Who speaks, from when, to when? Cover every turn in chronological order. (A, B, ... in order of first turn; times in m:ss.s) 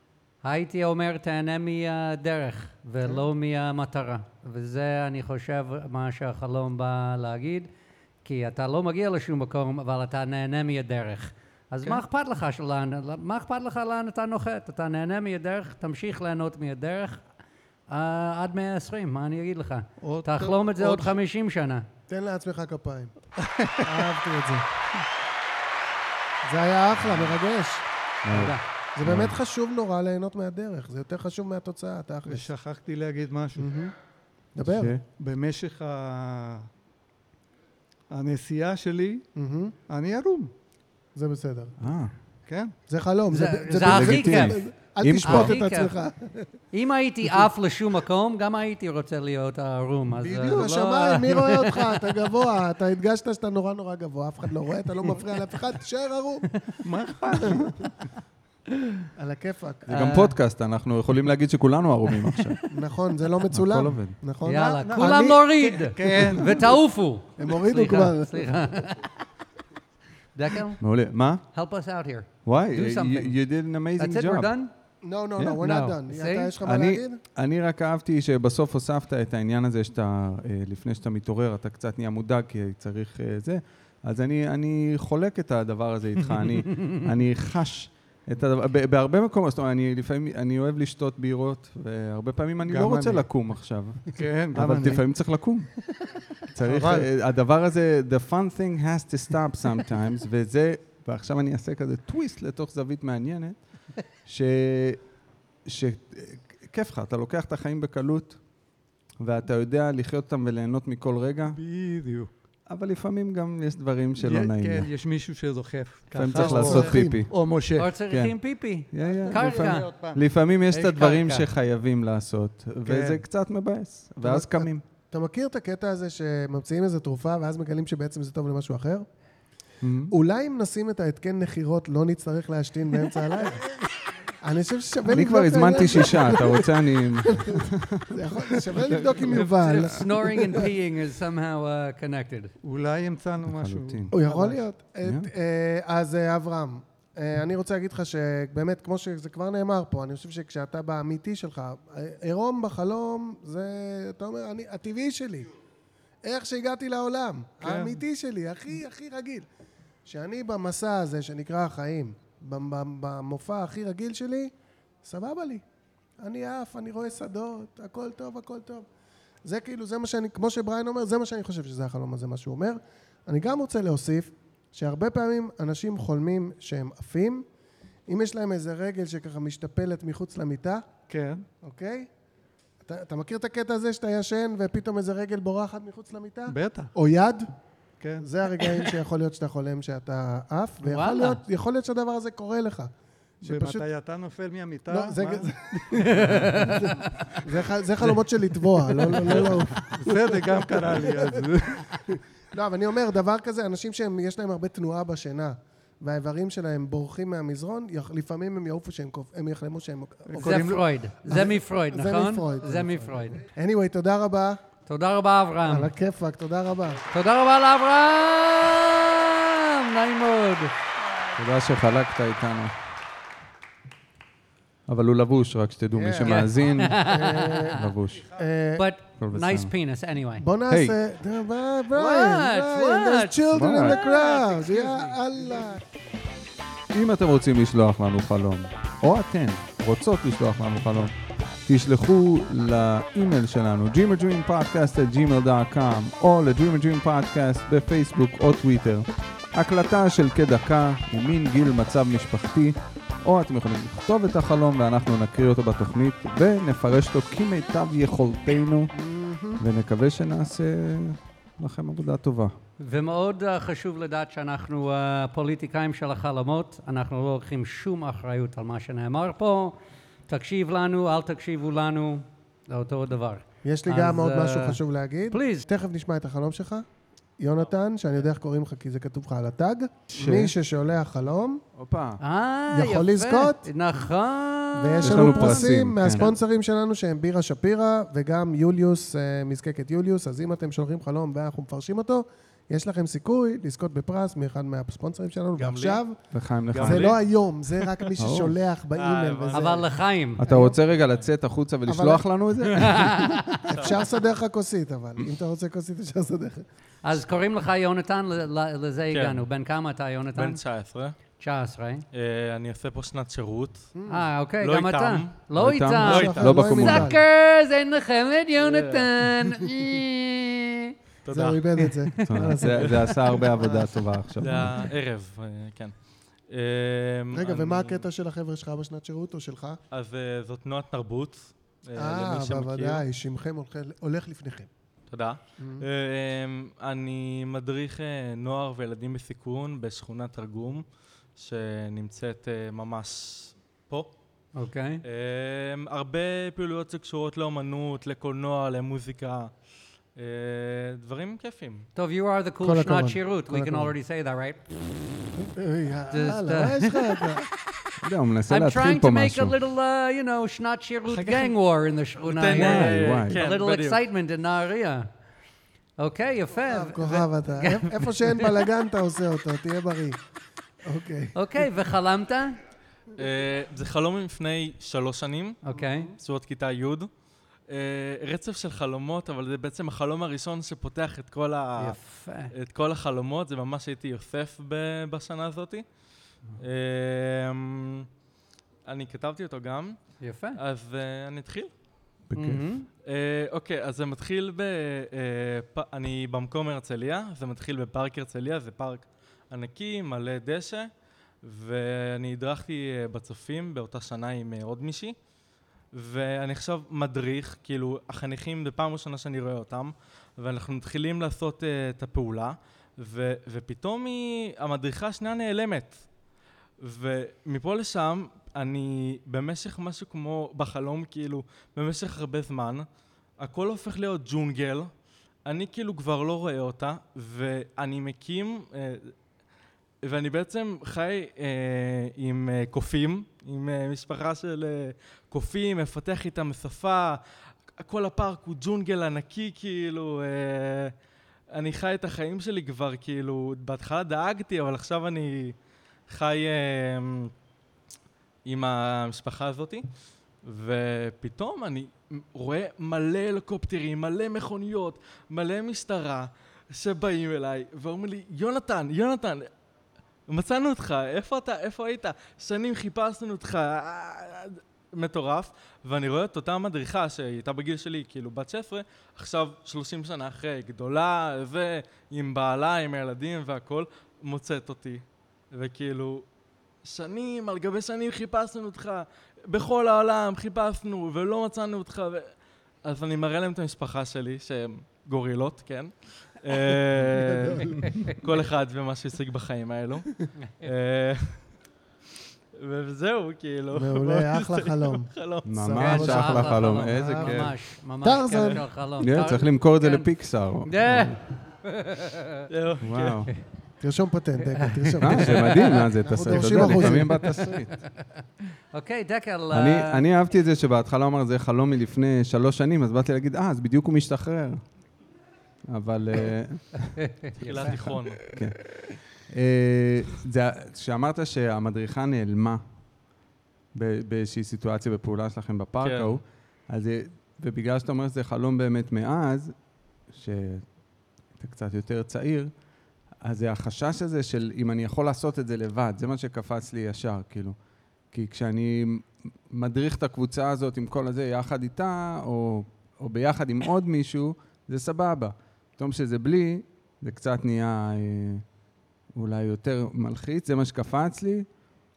0:00.4-0:07.7 A
0:08.2-0:17.2 A
0:17.9-0:21.8 A
0:20.0-0:21.2 B
0:22.1-0:23.1 C
0:23.4-0:24.0 B
0:23.8-0:24.6 C
0:26.4-0:27.8 C
0:28.2-0:29.4 D
0:28.3-0:28.6 A
0:29.0-0:32.5 C
0:32.2-0:33.7 B
0:33.6-0:33.9 C
0:34.5-0:35.0 C
0:34.6-0:35.0 D
0:35.1-0:36.7 B
0:38.1-0:39.2 B
0:39.4-0:39.7 C
0:39.9-0:40.5 B
0:41.1-0:41.7 C
0:41.8-0:42.1 D
0:42.5-0:42.7 B
0:42.9-0:46.5 C
0:43.3-0:44.6 A
0:43.8-0:45.5 D
0:45.2-0:45.9 A
0:46.7-0:52.0 A
0:50.2-0:50.6 B
0:50.4-0:56.5 C
0:56.8-0:57.9 B
0:59.2-0:59.9 C
0:59.9-1:02.6 D
0:59.9-1:00.3 A
1:02.7-1:05.4 C
1:03.5-1:04.2 D
1:04.4-1:09.1 A
1:04.6-1:06.7 B
1:07.4-1:08.5 C
1:10.3-1:10.8 A
1:10.8-1:11.4 D
1:11.5-1:13.4 A
1:12.4-1:14.5 D
1:14.0-1:14.7 A
1:15.0-1:17.2 C
1:15.4-1:16.5 A
1:16.6-1:35.8 D
1:32.6-1:33.3 B
1:34.1-1:35.1 B
1:36.5-1:45.0 D
1:36.6-1:37.1 B
1:45.6-1:48.4 D
1:49.2-1:51.6 D
1:51.5-1:52.3 B
1:52.7-1:54.9 D
1:54.1-1:58.0 B
1:56.1-1:57.3 D
1:56.3-1:57.2 C
1:57.8-1:59.9 A
1:58.1-1:58.4 D
1:58.9-2:04.8 D
1:59.0-2:00.2 B
2:00.7-2:01.4 A
2:02.8-2:03.2 B
2:04.2-2:09.1 C
2:09.8-2:10.1 D
2:10.1-2:13.6 C
2:14.4-2:20.7 C
2:15.1-2:18.2 D
2:18.7-2:19.3 D
2:19.3-2:22.5 A
2:22.6-2:24.6 B
2:23.4-2:24.1 D
2:24.1-2:35.5 C
2:36.2-2:39.4 C
2:37.6-2:38.0 B
2:40.0-2:44.5 C
2:45.0-2:45.6 C
2:46.2-2:48.9 C
2:49.4-2:57.4 C
2:58.1-3:00.9 C
3:01.1-3:01.4 B
3:01.6-3:02.1 C
3:02.8-3:07.5 C
3:06.5-3:06.9 B
3:08.0-3:08.2 B
3:08.2-3:13.9 C
3:10.8-3:11.4 A
3:13.4-3:17.2 B
3:14.9-3:21.4 C
3:16.0-3:16.8 A
3:19.0-3:22.2 B
3:22.1-3:34.6 C
3:30.2-3:30.8 B
3:30.4-3:33.4 A
3:34.9-3:35.9 A
3:35.6-3:37.0 C
3:37.1-3:40.7 A
3:41.4-3:42.7 D
3:44.9-3:47.1 D
3:45.9-3:48.8 C
3:46.2-3:47.8 A
3:47.7-3:48.3 D
3:48.8-3:50.4 A
3:49.2-3:49.7 D
3:50.4-3:55.8 C
3:50.7-3:50.9 D
3:51.9-3:55.0 A
3:53.5-3:54.0 D
3:56.9-4:01.1 D
4:01.6-4:18.9 D
4:18.9-4:19.6 C
4:19.6-4:22.6 D
4:22.8-4:29.8 A
4:30.3-4:35.6 A
4:33.6-4:36.8 C
4:37.4-4:41.6 C
4:40.1-4:40.5 D
4:41.8-4:42.2 D
4:42.2-4:45.7 A
4:42.7-4:43.7 C
4:44.7-4:56.2 C
4:45.0-4:46.3 D
4:55.6-4:56.0 E
4:56.3-4:57.2 D
4:56.7-4:57.2 E
4:56.7-5:00.8 C
4:58.2-4:58.5 D
4:58.9-4:59.8 E
4:59.5-5:00.4 A
5:00.4-5:03.6 D
5:00.9-5:01.3 E
5:01.8-5:02.2 C
5:02.7-5:03.7 A
5:03.7-5:04.2 E
5:03.7-5:06.6 C
5:07.0-5:10.6 A
5:09.1-5:09.4 E
5:10.3-5:11.1 E
5:11.4-5:12.0 A
5:12.1-5:13.9 E
5:13.9-5:14.3 C
5:14.1-5:20.9 A
5:14.6-5:15.5 E
5:15.5-5:17.1 D
5:16.0-5:17.2 C
5:16.1-5:16.3 E
5:18.6-5:19.1 E
5:21.2-5:21.7 E
5:21.3-5:24.0 C
5:21.8-5:22.3 A
5:22.3-5:24.9 D
5:24.4-5:25.9 E
5:26.5-5:28.0 E
5:27.3-5:29.8 C
5:29.9-5:33.0 E
5:32.0-5:34.7 C
5:35.1-5:40.8 E
5:35.6-5:35.8 C
5:41.4-5:44.1 E
5:44.6-5:45.0 A
5:45.0-5:49.5 E
5:50.1-5:51.9 E
5:52.0-5:55.2 A
5:52.6-5:53.9 C
5:55.4-5:57.4 C
5:56.1-5:57.3 A
5:58.0-5:59.5 D
5:58.5-6:05.1 A
6:01.1-6:01.5 E
6:02.2-6:04.0 E
6:02.5-6:03.4 D
6:06.0-6:08.5 A
6:06.6-6:10.2 C
6:10.8-6:11.3 C
6:11.3-6:12.6 A
6:13.2-6:15.6 E
6:15.6-6:16.1 A
6:16.1-6:17.1 E
6:17.7-6:22.0 E
6:21.8-6:22.5 A
6:22.5-6:25.8 E
6:26.6-6:28.1 E
6:28.8-6:30.0 E
6:30.2-6:30.6 A
6:30.6-6:31.7 E
6:32.3-6:32.7 D
6:32.3-6:32.9 A
6:33.0-6:40.9 E
6:41.4-6:45.2 E
6:45.9-6:56.0 E
6:56.8-7:02.8 E
7:03.4-7:04.9 E
7:05.4-7:09.1 E
7:10.0-7:17.2 E
7:17.8-7:20.9 E
7:21.5-7:25.6 E
7:26.1-7:27.3 E
7:28.4-7:29.8 E
7:30.4-7:39.5 E
7:40.3-7:56.2 E
7:56.8-8:02.3 E
8:02.8-8:10.1 E
8:07.1-8:08.0 C
8:10.6-8:11.4 E
8:12.6-8:15.5 E
8:13.7-8:17.5 C
8:15.4-8:17.5 D
8:15.7-8:20.0 A
8:18.0-8:18.6 C
8:19.0-8:21.2 D
8:20.6-8:22.4 A
8:22.5-8:23.2 E
8:22.8-8:23.3 D
8:23.8-8:27.6 C
8:24.6-8:28.0 A
8:25.0-8:27.8 D
8:28.7-8:30.0 A
8:29.5-8:34.6 D
8:35.7-8:37.0 D
8:37.0-8:37.9 A
8:37.4-8:38.2 E
8:37.5-8:42.6 D
8:43.7-8:49.5 D
8:45.8-8:46.2 E
8:50.1-8:50.6 D
8:51.4-8:52.5 D
8:53.2-8:57.6 D
8:58.1-9:08.4 D
9:09.1-9:11.5 D